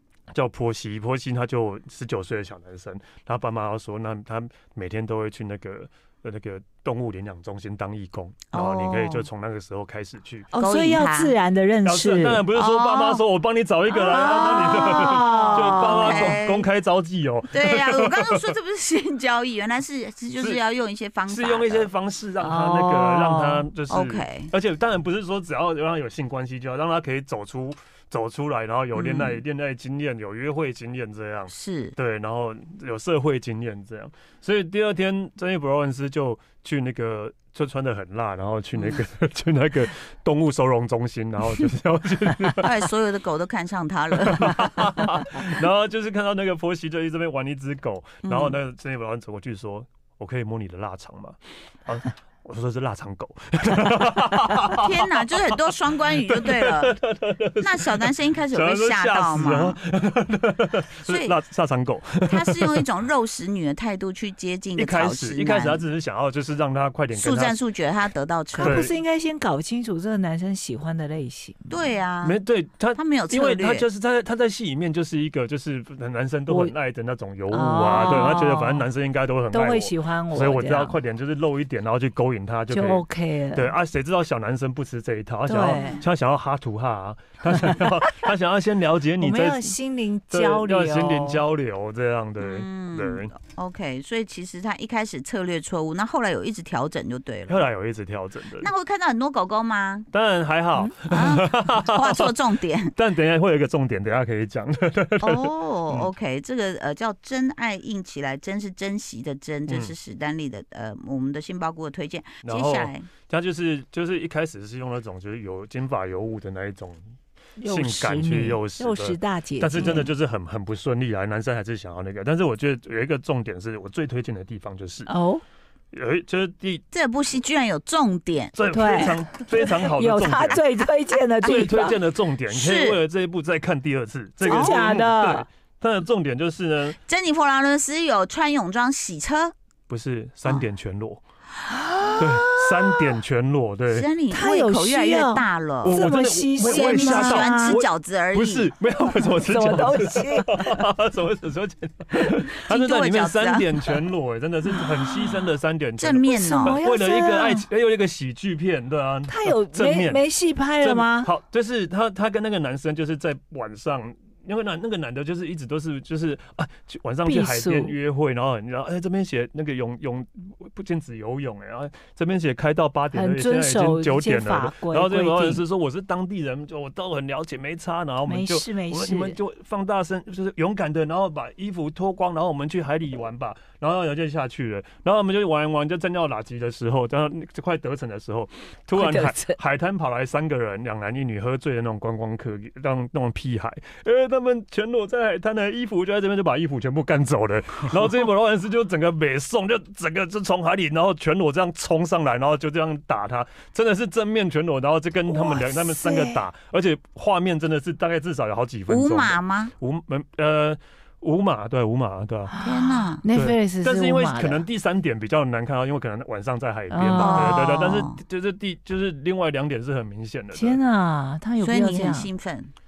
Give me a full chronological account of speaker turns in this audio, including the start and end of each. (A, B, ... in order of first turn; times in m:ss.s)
0:00.3-0:10.5 A
0:08.5-0:09.3 B
0:10.5-0:12.5 C
0:10.6-0:11.4 B
0:11.8-0:18.6 A
0:12.5-0:13.2 B
0:14.0-0:16.4 C
0:14.0-0:16.7 B
0:17.5-0:21.9 B
0:21.3-0:42.7 A
0:22.4-0:23.7 C
0:23.9-0:24.5 B
0:29.0-0:29.4 B
0:31.5-0:32.0 B
0:38.8-0:39.0 B
0:42.6-0:44.9 B
0:44.3-0:54.9 A
0:48.2-0:48.6 B
0:54.7-0:57.0 B
0:56.3-1:02.8 A
0:57.6-0:59.8 B
1:01.0-1:01.4 B
1:02.3-1:05.8 B
1:04.8-1:07.6 A
1:07.1-1:08.9 B
1:08.5-1:11.9 C
1:08.6-1:09.0 A
1:11.7-1:12.4 B
1:12.2-1:29.8 A
1:13.0-1:13.9 B
1:16.5-1:16.7 C
1:17.5-1:18.9 C
1:17.9-1:18.3 B
1:19.5-1:21.0 C
1:22.7-1:23.7 C
1:25.5-1:26.0 C
1:25.7-1:26.0 B
1:29.2-1:31.4 C
1:30.3-1:33.3 A
1:32.4-1:37.7 B
1:37.5-1:38.7 A
1:38.6-1:40.1 B
1:40.1-1:42.3 A
1:41.1-1:42.9 B
1:43.0-1:46.1 A
1:45.2-1:53.1 B
1:49.7-1:49.9 A
1:52.4-1:57.0 A
1:57.6-2:00.1 C
1:57.6-2:05.1 A
2:05.1-2:05.4 C
2:05.9-2:06.8 A
2:06.9-2:08.6 B
2:08.5-2:10.6 A
2:08.7-2:12.0 C
2:11.4-2:11.9 B
2:11.4-2:17.0 A
2:12.5-2:13.0 B
2:14.4-2:15.5 C
2:14.4-2:14.8 B
2:17.0-2:19.5 B
2:19.9-2:21.2 A
2:21.8-2:22.6 C
2:22.2-2:24.1 A
2:23.9-2:26.1 B
2:24.3-2:27.8 C
2:25.8-2:40.2 A
2:26.6-2:28.7 B
2:29.2-2:30.6 C
2:32.7-2:33.7 B
2:36.0-2:36.8 B
2:36.3-2:37.6 C
2:39.3-2:41.3 C
2:40.8-3:32.6 A
2:47.2-2:48.0 C
2:53.1-2:55.6 C
2:58.2-2:59.4 C
3:08.9-3:09.6 C
3:25.3-3:26.4 C
3:28.9-3:29.7 B
3:32.5-3:34.6 C
3:32.6-3:33.2 B
3:33.3-3:40.8 A
3:36.9-3:37.6 C
3:37.2-3:38.2 B
3:40.5-3:42.3 C
3:41.6-3:42.7 B